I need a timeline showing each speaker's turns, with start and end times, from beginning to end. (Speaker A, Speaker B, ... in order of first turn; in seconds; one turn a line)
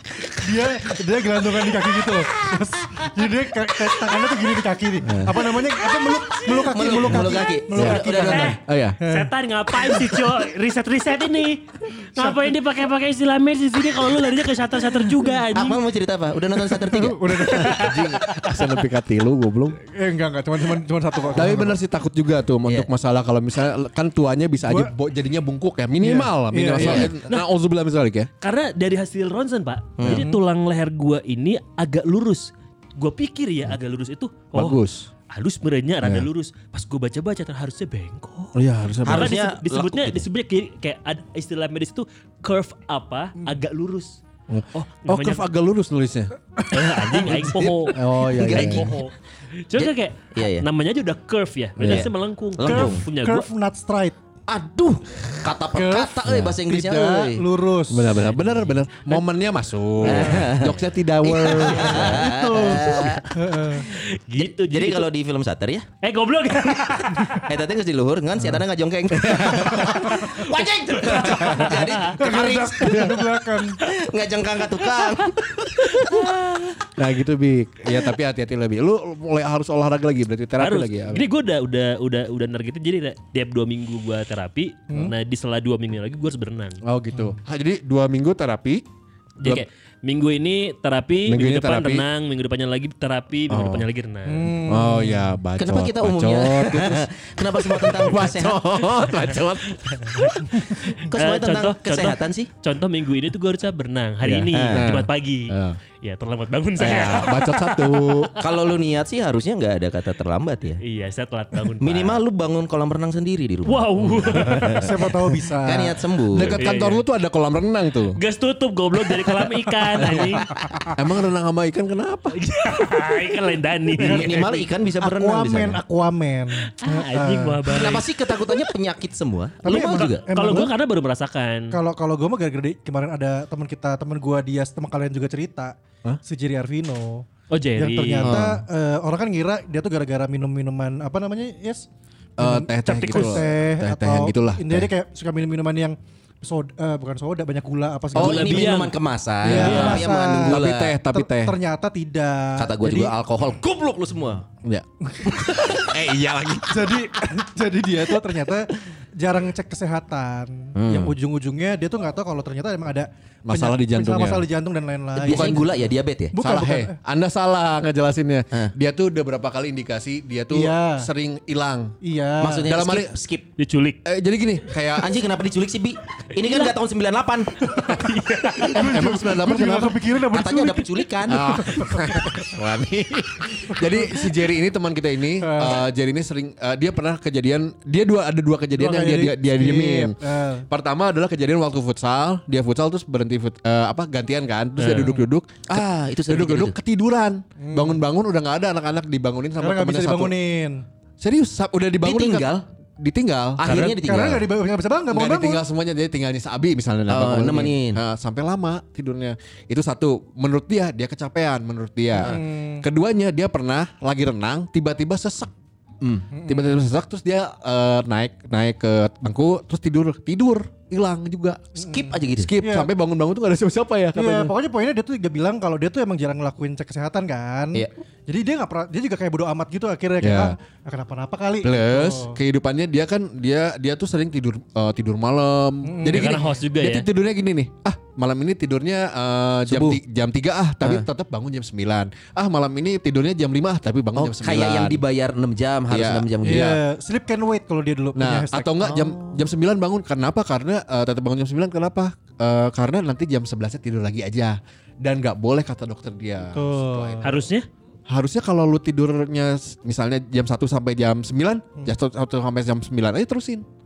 Speaker A: 0.4-10.2
Speaker B: 5.0-5.4
Speaker C: 6.5-8.6
Speaker B: 7.7-9.0
Speaker D: 8.2-15.8
Speaker A: 12.2-12.5
Speaker C: 15.5-17.8
Speaker A: 16.7-18.1
Speaker D: 17.5-18.4
Speaker B: 17.8-19.8
Speaker A: 19.8-21.8
Speaker B: 21.3-28.3
Speaker A: 24.6-24.9
Speaker A: 26.0-27.2
Speaker C: 26.8-27.1
Speaker D: 28.4-44.2
Speaker C: 30.0-30.3
Speaker B: 34.5-35.1
Speaker B: 36.0-36.3
Speaker B: 38.5-39.3
Speaker C: 39.0-40.2
Speaker B: 44.5-46.3
Speaker D: 44.7-45.5
Speaker A: 46.6-47.5
Speaker D: 46.7-53.5
Speaker C: 47.5-49.0
Speaker B: 47.9-49.0
Speaker C: 49.7-50.6
Speaker B: 51.8-52.1
Speaker C: 51.8-53.0
Speaker A: 52.6-54.1
Speaker C: 54.5-57.4
Speaker A: 55.7-58.2
Speaker B: 56.2-56.6
Speaker B: 57.9-62.3
Speaker C: 60.0-63.3
Speaker A: 61.6-63.9
Speaker D: 63.7-65.1
Speaker C: 64.4-65.9
Speaker D: 66.0-67.5
Speaker C: 67.3-76.7
Speaker B: 69.1-70.1
Speaker D: 71.1-72.1
Speaker B: 71.2-71.7
Speaker A: 72.2-73.8
Speaker D: 75.9-76.3
Speaker B: 77.0-81.2
Speaker D: 80.6-86.8
Speaker B: 86.8-88.8
Speaker D: 89.4-94.6
Speaker B: 91.3-92.0
Speaker B: 93.5-93.9
Speaker A: 94.3-95.3
Speaker B: 94.7-97.1
Speaker C: 95.6-98.6
Speaker B: 97.8-100.3
Speaker D: 100.0-108.3
Speaker C: 100.9-102.5
Speaker B: 104.2-105.8
Speaker C: 104.5-104.9
Speaker B: 106.8-108.3
Speaker C: 108.4-110.8
Speaker D: 110.8-112.2
Speaker C: 111.8-114.9
Speaker D: 113.7-115.1
Speaker B: 114.2-114.5
Speaker A: 114.7-116.1
Speaker C: 115.6-116.6
Speaker B: 116.3-118.2
Speaker D: 116.6-117.0
Speaker D: 118.2-120.5
Speaker B: 120.0-120.3
Speaker A: 120.6-120.9
Speaker B: 120.9-122.4
Speaker D: 122.3-124.5
Speaker C: 124.0-125.8
Speaker A: 124.0-128.0
Speaker D: 126.8-128.6
Speaker C: 127.7-130.3
Speaker A: 129.6-130.7
Speaker D: 129.7-131.8
Speaker A: 131.7-141.9
Speaker D: 137.5-138.4
Speaker B: 138.2-138.6
Speaker B: 142.4-144.9
Speaker A: 142.4-148.8
Speaker D: 142.9-143.5
Speaker D: 148.1-148.9
Speaker C: 148.1-150.9
Speaker B: 149.4-151.6
Speaker A: 149.4-153.1
Speaker D: 149.5-150.1
Speaker C: 152.6-154.4
Speaker B: 154.6-157.1
Speaker A: 155.1-155.7
Speaker A: 156.7-165.7
Speaker C: 160.7-161.1
Speaker B: 163.4-164.4
Speaker C: 165.2-166.4
Speaker B: 165.2-165.7
Speaker A: 166.3-166.9
Speaker B: 166.4-171.9
Speaker A: 170.5-171.1
Speaker A: 172.0-172.7
Speaker C: 172.4-173.4
Speaker B: 172.7-173.1
Speaker D: 173.6-174.0
Speaker B: 174.1-175.2
Speaker C: 174.9-177.6
Speaker D: 176.3-176.7
Speaker D: 177.7-179.0
Speaker A: 177.8-182.5
Speaker B: 178.8-179.9
Speaker C: 179.1-181.5
Speaker B: 181.3-190.2
Speaker A: 183.7-184.4
Speaker A: 185.4-185.9
Speaker A: 188.7-190.7
Speaker B: 190.7-200.3
Speaker D: 194.8-195.1
Speaker A: 195.0-195.3
Speaker C: 195.7-196.8
Speaker A: 197.6-198.0
Speaker A: 199.6-200.8
Speaker B: 201.2-203.6
Speaker C: 202.0-202.6
Speaker C: 203.6-204.5
Speaker D: 203.7-203.9
Speaker A: 203.7-205.6
Speaker B: 205.1-215.5
Speaker C: 207.1-208.0
Speaker A: 212.2-212.8
Speaker A: 216.3-216.7
Speaker B: 216.3-221.8
Speaker C: 221.8-222.5
Speaker A: 221.8-222.9
Speaker B: 222.4-224.6
Speaker A: 224.1-232.4
Speaker B: 230.2-230.5
Speaker B: 231.6-245.0
Speaker A: 235.8-236.5
Speaker D: 236.1-237.1
Speaker C: 239.7-240.0
Speaker C: 240.8-241.1
Speaker C: 244.2-246.7
Speaker B: 245.9-246.8
Speaker A: 246.4-249.0
Speaker B: 248.1-257.4
Speaker C: 248.8-249.4
Speaker A: 256.5-257.3
Speaker D: 257.2-257.6
Speaker B: 258.1-263.6